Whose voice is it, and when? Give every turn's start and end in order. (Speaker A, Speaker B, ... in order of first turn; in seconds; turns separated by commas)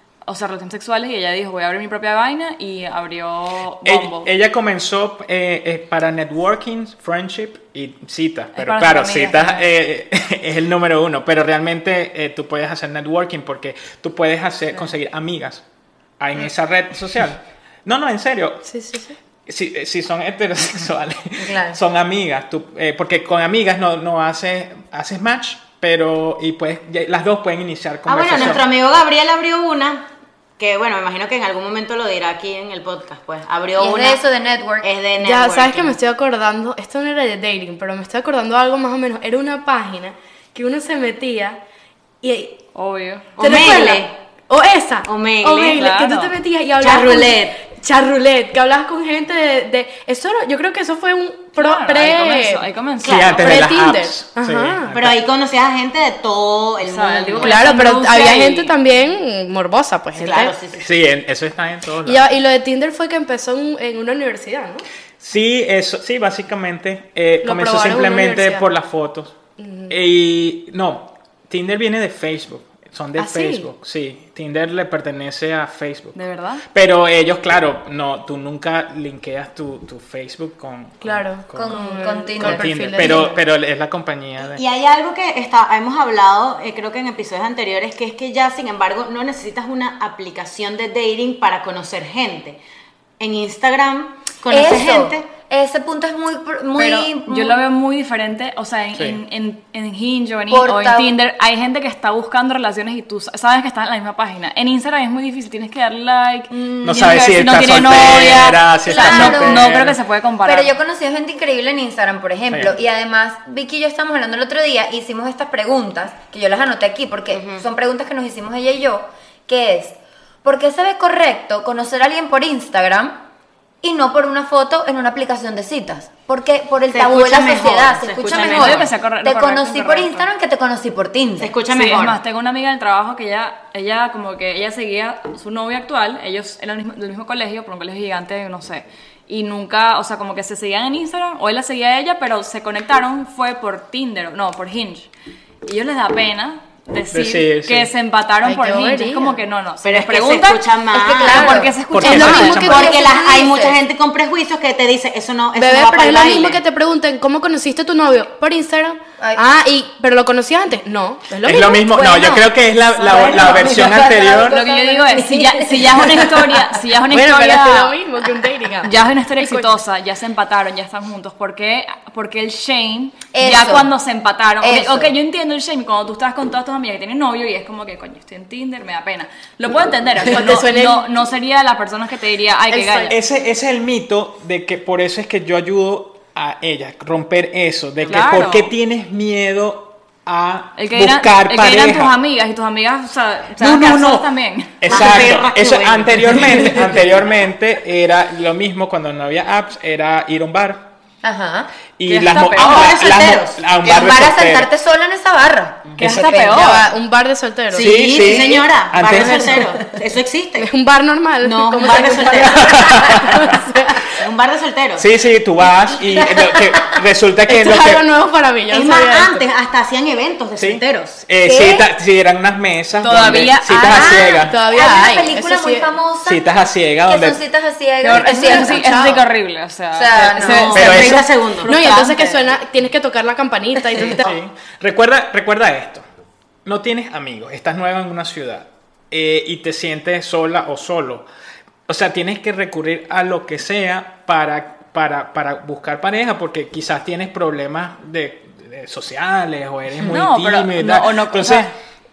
Speaker A: 0.2-4.3, Speaker B: 3.8-15.6, Speaker A: 8.5-9.7, Speaker B: 16.2-18.6, Speaker C: 18.6-19.1, Speaker B: 19.4-28.6, Speaker D: 21.4-21.8, Speaker E: 28.1-30.1, Speaker E: 30.6-34.2, Speaker D: 33.8-34.9, Speaker E: 34.8-36.0, Speaker C: 35.2-41.6, Speaker C: 42.2-42.6, Speaker A: 42.7-43.3, Speaker E: 43.4-44.1, Speaker C: 43.4-52.6, Speaker E: 45.0-45.9, Speaker A: 45.8-46.3, Speaker E: 46.8-47.6, Speaker A: 51.6-53.7, Speaker E: 53.0-53.4, Speaker B: 53.0-55.2, Speaker C: 53.3-54.9, Speaker E: 54.9-58.1, Speaker A: 56.8-58.7, Speaker C: 57.4-60.5, Speaker E: 60.1-60.8, Speaker B: 60.7-62.3, Speaker C: 62.0-64.8, Speaker B: 65.2-69.3, Speaker C: 67.4-68.6, Speaker C: 69.6-69.9, Speaker B: 69.9-76.2, Speaker C: 73.2-73.7, Speaker A: 76.1-76.6, Speaker B: 76.7-81.8, Speaker C: 81.0-83.4, Speaker D: 81.5-83.2, Speaker B: 82.3-84.6, Speaker E: 84.4-92.6, Speaker E: 93.2-95.2, Speaker D: 94.5-97.6, Speaker A: 96.8-110.7, Speaker D: 100.5-101.1, Speaker D: 106.5-107.3, Speaker B: 106.8-110.0, Speaker D: 108.0-109.7, Speaker D: 110.4-123.2, Speaker E: 117.3-117.6, Speaker D: 123.8-131.5, Speaker E: 126.9-128.9, Speaker A: 128.2-130.3, Speaker E: 131.4-132.2, Speaker A: 131.7-145.1, Speaker A: 145.6-150.6, Speaker B: 147.1-147.9, Speaker C: 148.4-149.4, Speaker E: 149.8-151.7, Speaker D: 150.9-151.8, Speaker A: 151.2-152.9, Speaker B: 151.9-152.8, Speaker C: 151.9-152.9, Speaker D: 152.3-153.8, Speaker E: 152.6-156.6, Speaker C: 155.6-163.7, Speaker B: 161.4-164.6, Speaker D: 163.0-166.7, Speaker A: 164.5-167.9, Speaker C: 167.1-169.8, Speaker A: 168.8-183.1, Speaker D: 173.3-173.9, Speaker D: 174.6-175.1, Speaker C: 180.2-181.1, Speaker C: 182.7-183.2, Speaker B: 183.1-192.2, Speaker A: 188.1-188.7, Speaker A: 190.8-194.9, Speaker E: 193.6-194.2, Speaker B: 194.8-200.8, Speaker E: 194.8-197.0, Speaker D: 201.2-201.7, Speaker B: 202.0-204.7, Speaker A: 202.1-202.9, Speaker E: 202.5-203.6, Speaker D: 203.8-206.8, Speaker A: 206.0-206.8, Speaker C: 206.4-207.9, Speaker E: 207.7-210.7, Speaker B: 207.7-209.7, Speaker D: 208.3-208.6, Speaker C: 210.6-214.1, Speaker E: 211.4-212.8, Speaker B: 212.2-213.6, Speaker E: 214.2-215.1, Speaker B: 214.9-218.1, Speaker D: 216.0-216.9, Speaker C: 217.5-219.4, Speaker E: 218.7-221.2, Speaker B: 220.6-224.6, Speaker D: 221.4-221.8, Speaker A: 223.0-224.2, Speaker D: 223.3-226.4, Speaker C: 224.4-225.9, Speaker B: 226.2-227.4, Speaker D: 227.1-229.2, Speaker A: 228.0-231.2, Speaker C: 228.1-229.2, Speaker D: 229.9-230.9, Speaker E: 230.3-232.4, Speaker B: 230.7-231.2, Speaker C: 231.0-234.3, Speaker B: 234.1-236.0, Speaker B: 236.6-241.2, Speaker B: 241.9-251.7, Speaker A: 250.0-251.7